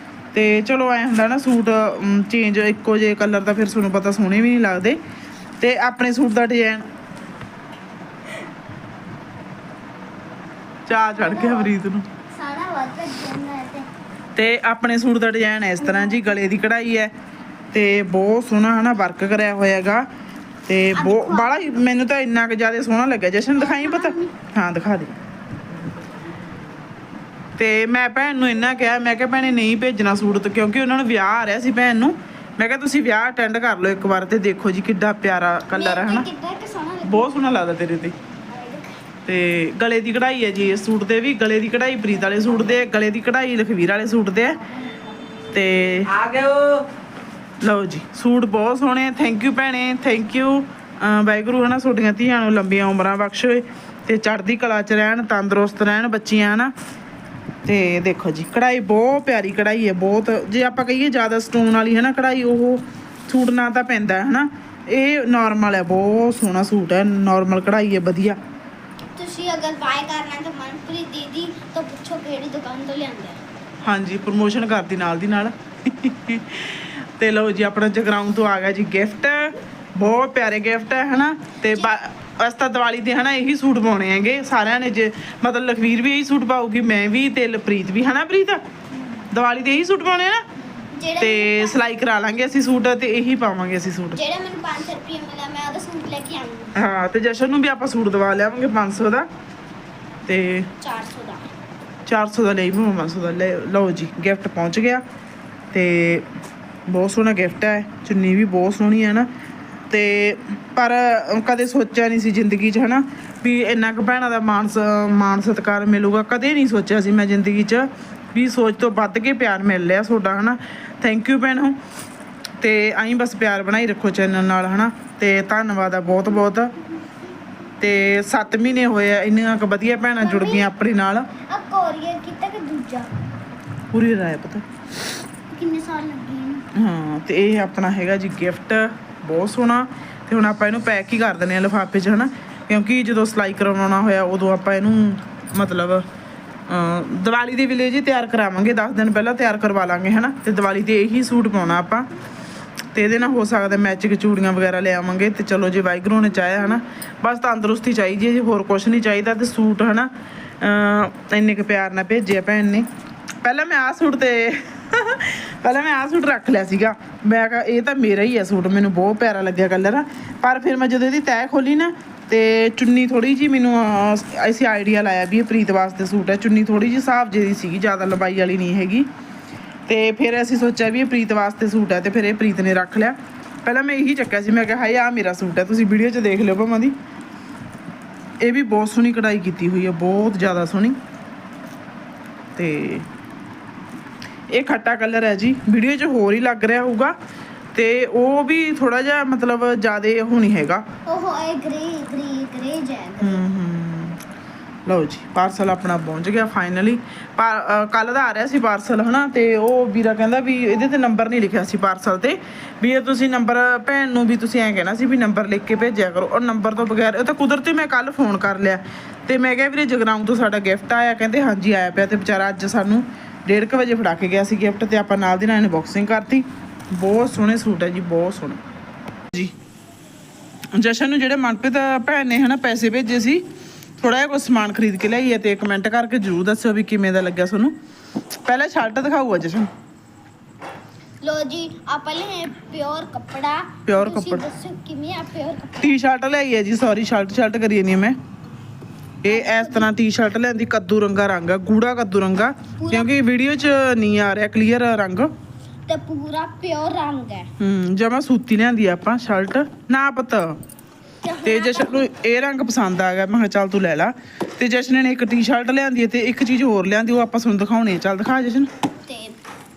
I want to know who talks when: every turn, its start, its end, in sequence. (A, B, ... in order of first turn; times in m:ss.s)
0:00.3-0:05.0 A
0:05.6-0:06.8 A
0:10.9-0:12.1 A
0:11.1-0:11.7 B
0:12.3-0:13.9 B
0:14.4-0:17.1 A
0:17.7-0:20.1 A
0:20.7-0:25.2 A
0:21.0-0:21.6 B
0:23.6-0:24.3 B
0:27.6-0:36.3 A
0:35.7-0:37.3 B
0:37.0-0:38.2 A
0:38.5-0:39.0 B
0:39.3-0:44.6 A
0:45.5-0:46.6 A
0:47.6-0:56.7 A
0:57.6-1:08.4 A
1:09.2-1:13.4 B
1:13.8-1:28.6 A
1:29.3-1:30.4 A
1:30.8-1:31.8 B
1:31.2-1:34.2 A
1:34.2-1:36.8 B
1:36.8-1:39.3 A
1:40.3-1:40.7 A
1:40.8-1:41.5 B
1:42.1-1:45.0 A
1:45.7-1:46.3 A
1:46.9-1:49.3 A
1:49.9-2:01.8 A
2:02.6-2:06.7 A
2:07.8-2:11.3 A
2:10.2-2:10.7 B
2:11.5-2:13.1 B
2:13.9-2:14.6 A
2:15.5-2:16.7 B
2:16.8-2:26.0 A
2:26.7-2:32.1 A
2:32.9-2:40.1 A
2:40.6-2:42.9 A
2:43.4-2:59.1 A
2:59.9-3:07.0 A
3:08.4-3:11.0 A
3:12.6-3:13.1 A
3:14.5-3:17.1 A
3:17.7-3:20.8 A
3:21.1-3:23.4 B
3:23.2-3:24.2 A
3:24.9-3:48.6 A
3:50.7-3:53.4 A
3:54.0-3:57.8 A
3:58.5-3:59.7 A
4:01.2-4:06.0 B
4:03.9-4:04.4 A
4:05.8-4:08.2 A
4:09.2-4:15.3 A
4:09.3-4:09.9 B
4:12.8-4:13.1 B
4:15.9-4:17.5 B
4:17.6-4:20.6 A
4:21.2-4:22.1 B
4:21.4-4:28.7 A
4:29.1-4:29.4 B